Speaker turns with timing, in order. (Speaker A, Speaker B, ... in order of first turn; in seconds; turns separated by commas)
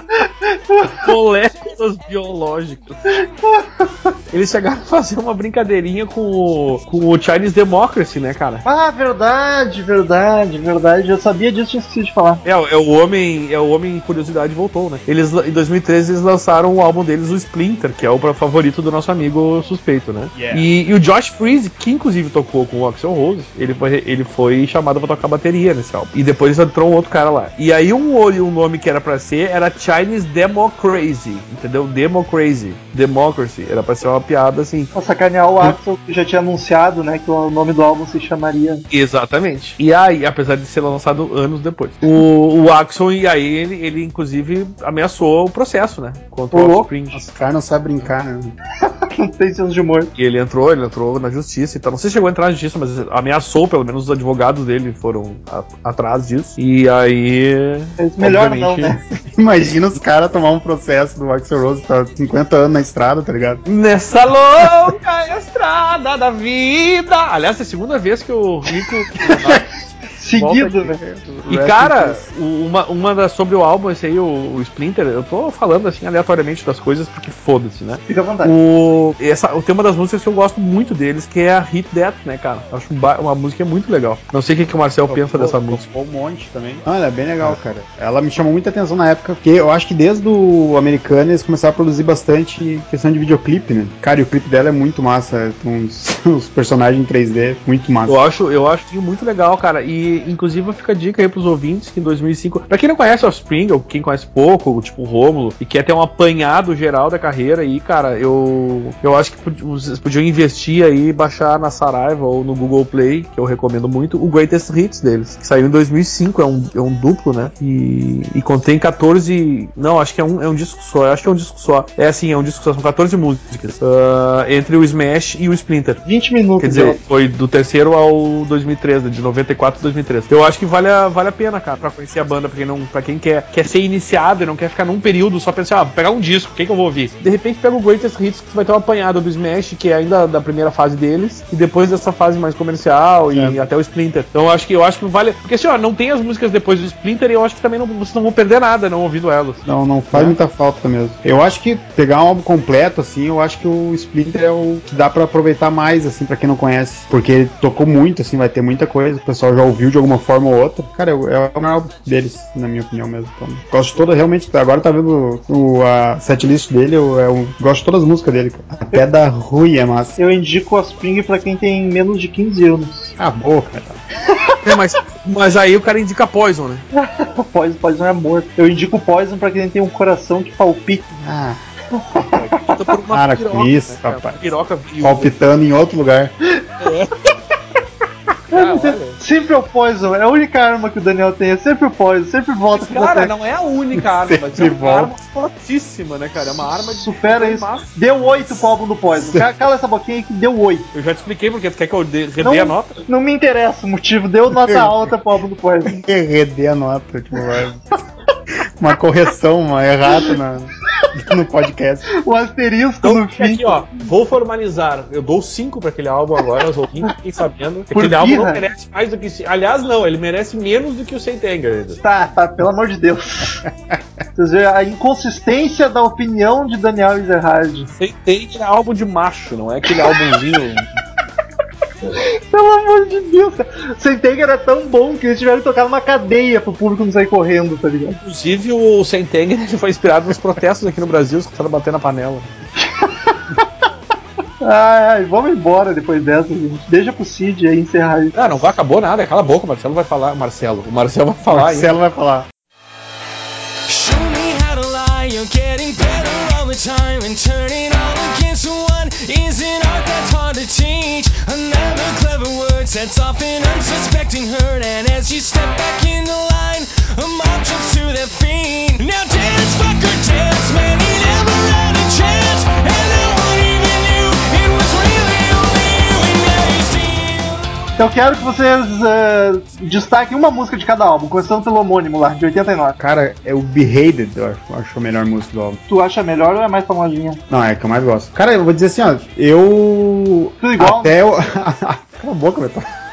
Speaker A: 0.1-1.0, Speaker B: 1.0-3.0, Speaker A: 3.2-3.9, Speaker B: 4.3-8.7, Speaker A: 8.7-12.4, Speaker B: 12.4-34.9, Speaker C: 20.3-20.7, Speaker A: 34.9-38.8, Speaker B: 38.9-47.2, Speaker A: 46.5-46.9, Speaker C: 47.1-48.5, Speaker A: 49.1-50.1, Speaker B: 50.2-59.0, Speaker A: 58.0-59.0, Speaker C: 59.1-63.6, Speaker B: 63.7-69.6, Speaker C: 69.2-69.6, Speaker A: 70.2-71.0, Speaker C: 70.3-72.3, Speaker B: 71.5-85.8, Speaker A: 78.1-78.5, Speaker C: 85.1-98.2, Speaker B: 98.1-126.0, Speaker A: 126.0-127.0, Speaker B: 126.6-150.4, Speaker C: 143.3-143.6, Speaker C: 149.7-170.2, Speaker A: 170.2-173.1, Speaker C: 173.2-174.0, Speaker B: 174.6-176.8, Speaker A: 176.9-181.1, Speaker C: 181.1-181.6, Speaker A: 181.9-182.7, Speaker B: 182.3-185.3, Speaker C: 183.1-184.4, Speaker C: 185.0-186.3, Speaker B: 186.8-187.1, Speaker B: 188.5-189.2, Speaker A: 188.5-193.3, Speaker B: 192.8-198.3, Speaker C: 193.9-195.1, Speaker A: 196.8-200.9, Speaker C: 199.2-199.5, Speaker B: 200.9-203.0, Speaker A: 202.4-206.0, Speaker C: 204.5-205.1, Speaker C: 205.9-207.8, Speaker C: 208.8-212.1, Speaker A: 212.2-213.9, Speaker B: 213.0-222.0, Speaker A: 217.9-218.6, Speaker A: 222.0-223.6, Speaker A: 224.4-227.9, Speaker B: 228.0-231.0, Speaker A: 232.1-238.2, Speaker B: 238.2-242.5, Speaker A: 242.8-243.3, Speaker A: 244.6-248.4, Speaker B: 248.3-252.0, Speaker C: 251.5-252.5, Speaker D: 253.9-277.9, Speaker A: 278.0-283.0, Speaker C: 283.0-285.8, Speaker A: 285.9-287.4, Speaker C: 287.5-292.9, Speaker A: 290.6-291.1